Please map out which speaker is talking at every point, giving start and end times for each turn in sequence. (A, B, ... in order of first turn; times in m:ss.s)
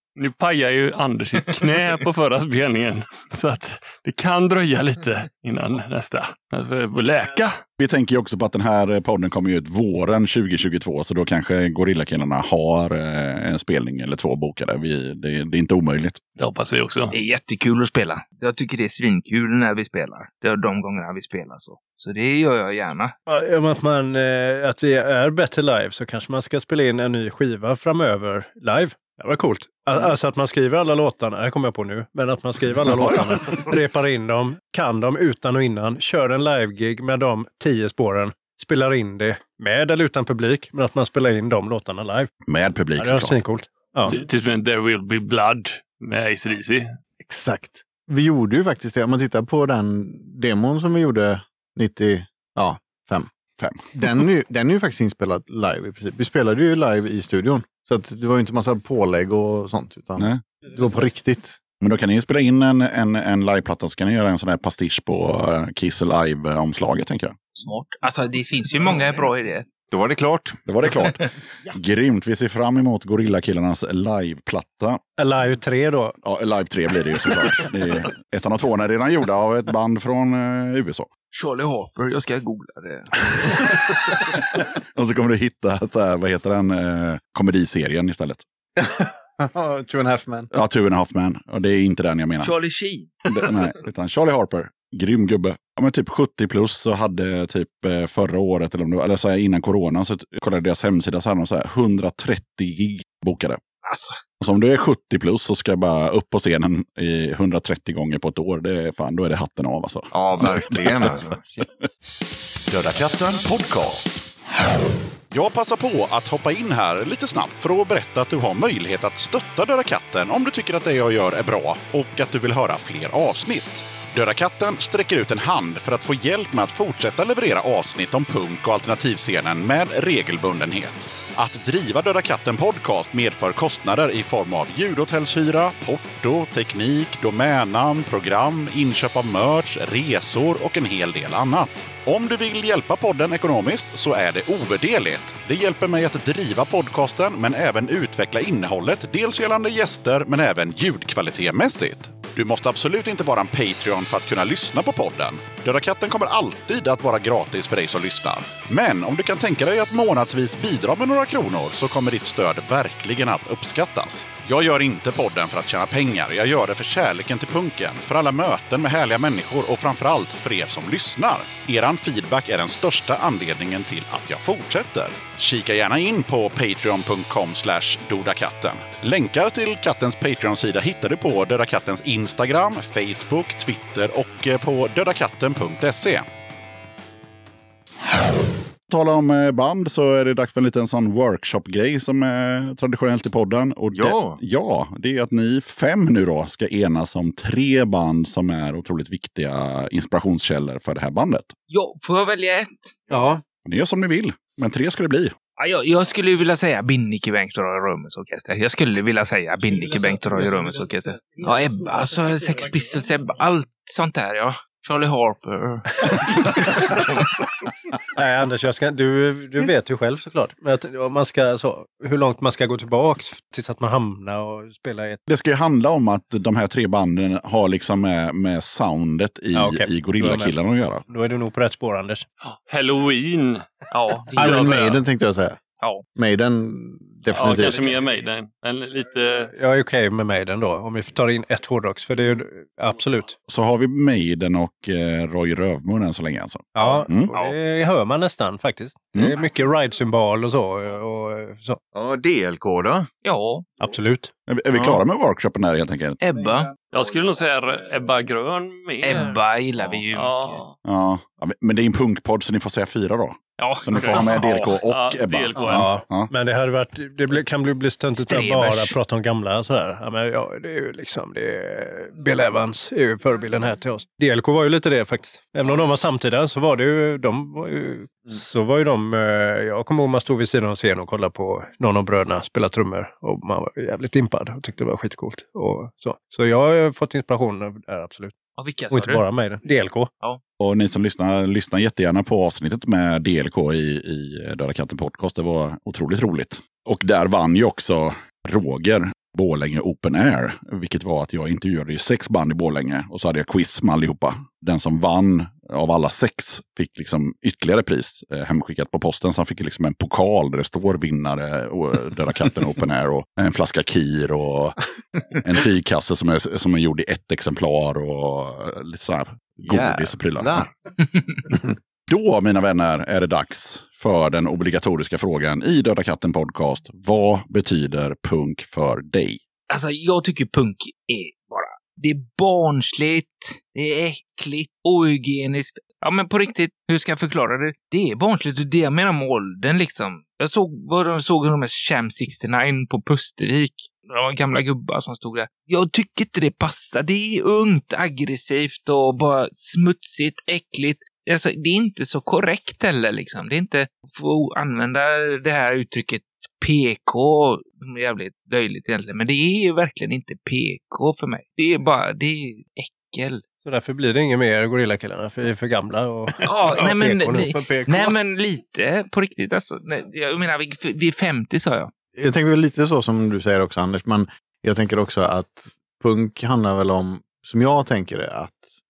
0:00.2-0:07.6 A
0:07.8-0:16.2 B
0:16.4-0:17.2 A
0:17.1-0:23.1 C
0:23.3-0:42.3 D
0:32.8-0:33.7 B
0:42.5-0:43.4 B
0:43.0-0:44.2 D
0:44.0-0:47.0 A
0:47.2-0:53.3 E
0:53.6-0:53.9 B
0:53.9-1:01.6 E
1:00.2-1:00.4 B
1:01.8-1:07.4 B
1:07.5-1:09.7 C
1:09.9-1:10.6 F
1:10.6-1:15.0 B
1:11.0-1:11.3 C
1:15.2-1:16.2 D
1:16.2-1:21.1 B
1:21.3-1:24.2 C
1:24.6-1:28.4 B
1:28.8-1:30.5 E
1:30.5-1:32.5 B
1:32.4-1:33.5 C
1:33.2-1:43.6 B
1:43.8-1:44.2 C
1:44.4-1:51.3 B
1:50.1-1:51.7 F
1:52.7-1:54.2 B
1:55.3-3:06.2 B
3:08.9-3:21.5 B
3:13.9-3:14.4 F
3:21.7-3:23.0 C
3:23.1-3:23.4 D
3:23.6-3:25.3 B
3:25.6-3:37.3 C
3:38.1-3:45.2 D
3:45.3-3:51.0 B
3:49.5-3:50.5 D
3:51.1-3:52.3 D
3:52.4-3:53.7 A
3:53.9-3:54.5 C
3:54.3-3:55.0 A
3:54.3-3:55.6 E
3:56.2-3:58.0 E
3:57.3-3:59.5 A
3:59.5-4:03.4 D
4:03.5-4:07.3 B
4:06.7-4:11.8 D
4:07.3-4:07.6 C
4:11.9-4:13.1 F
4:13.2-4:13.7 C
4:13.8-4:14.3 D
4:14.5-4:16.2 B
4:14.7-4:15.0 F
4:16.2-4:16.8 C
4:16.9-4:19.4 A
4:19.0-4:20.6 C
4:20.1-4:20.7 A
4:20.8-4:26.3 B
4:23.6-4:24.8 C
4:24.4-4:25.9 A
4:25.7-4:50.1 D
4:28.1-4:29.0 C
4:48.6-4:49.2 C
4:50.6-5:14.8 B
5:15.4-5:20.7 B
5:19.6-5:20.7 F
5:22.1-5:29.4 B
5:29.7-6:03.4 C
6:03.6-6:07.5 D
6:06.4-6:11.9 C
6:07.5-6:08.1 E
6:12.2-6:18.7 E